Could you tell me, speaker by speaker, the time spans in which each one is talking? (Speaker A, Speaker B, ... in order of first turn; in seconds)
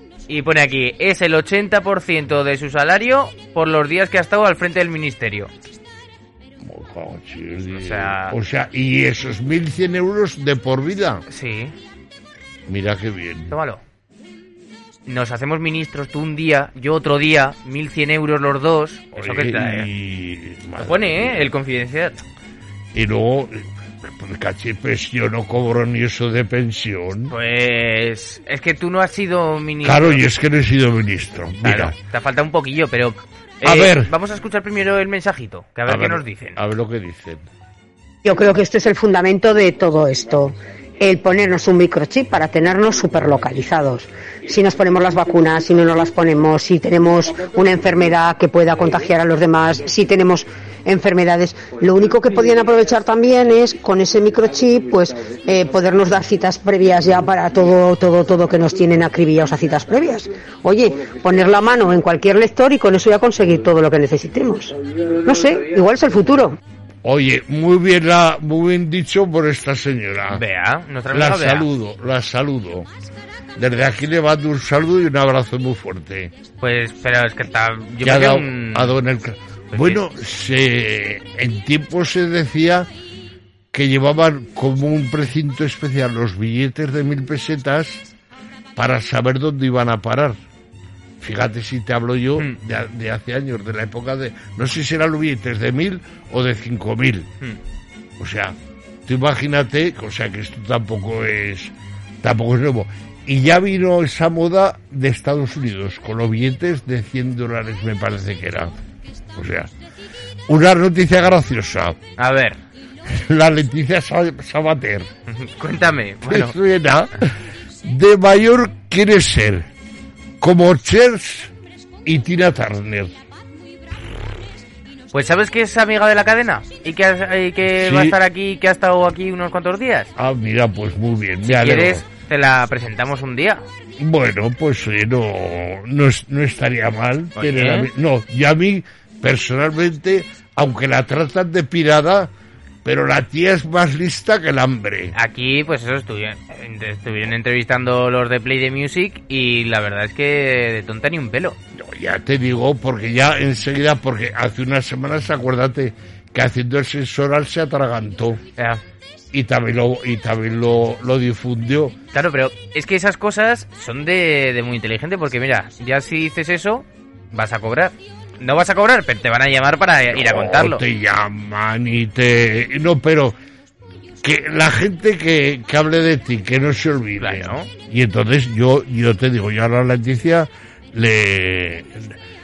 Speaker A: 0.3-5.5, 7.8-8.4, 11.3-11.7, 13.5-13.8, 15.1-19.9, 20.8-22.2, 27.3-30.2, 31.6-36.6, 70.3-71.7, 76.6-79.0, 79.7-80.0, 112.2-112.6, 115.3-116.5, 125.1-130.1, 131.4-133.6, 137.4-137.9, 145.1-151.6, 158.6-158.8, 162.1-170.8, 177.2-177.7
Speaker B: 6.6-11.2, 12.7-13.6, 19.1-21.5, 22.9-27.3, 29.8-31.9, 33.6-34.1, 35.9-37.4, 67.0-70.4, 71.1-72.9, 73.6-76.3, 78.0-82.9, 83.7-88.0, 88.8-90.4, 91.2-97.3, 98.2-108.7, 109.3-109.7, 110.5-112.0, 113.1-115.1, 116.3-119.7, 120.4-121.5, 122.0-123.2, 127.7-128.2, 130.2-132.0, 134.0-142.3, 142.8-145.1, 151.7-158.4, 159.3-161.9, 170.1-173.4, 174.2-182.1
Speaker C: 38.2-66.6